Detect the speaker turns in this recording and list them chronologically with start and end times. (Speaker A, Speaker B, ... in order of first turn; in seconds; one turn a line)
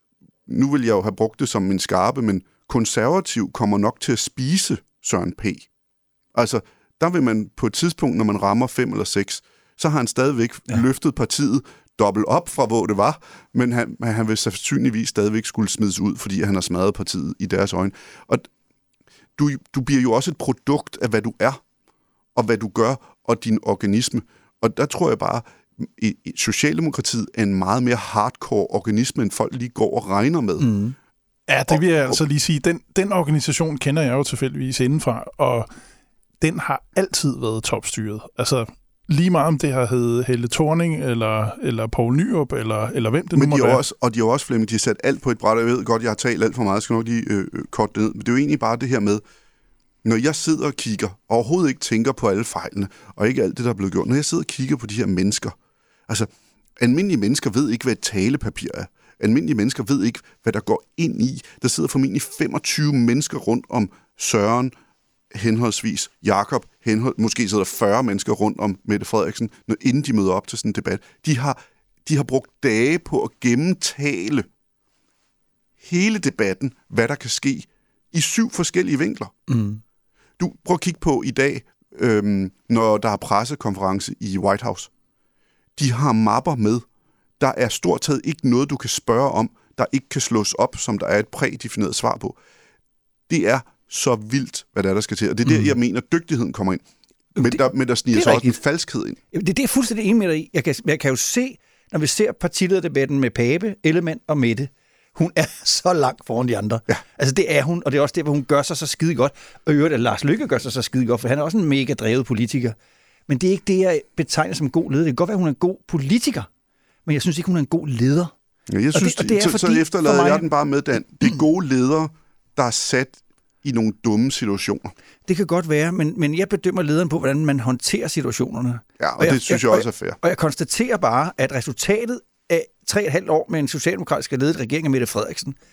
Speaker A: 0.5-5.7
Speaker A: 6.3-18.5
Speaker A: 19.4-21.6
Speaker A: 22.4-30.7
Speaker B: 30.6-30.9
Speaker C: 31.5-35.7
Speaker A: 31.7-32.2
Speaker C: 36.4-43.8
Speaker A: 43.3-49.2
Speaker A: 50.0-55.5
Speaker A: 56.1-64.7
Speaker A: 65.3-74.5
Speaker A: 75.8-79.3
Speaker B: 79.5-79.8
Speaker A: 80.4-84.9
Speaker A: 85.8-86.8
Speaker A: 87.4-92.3
Speaker A: 93.3-96.8
Speaker B: 97.3-98.6
Speaker A: 97.3-99.2
Speaker B: 99.3-112.8
Speaker B: 113.3-116.5
Speaker B: 117.0-118.3
Speaker A: 118.7-124.9
Speaker B: 118.9-120.5
Speaker B: 125.2-135.6
Speaker A: 129.0-130.2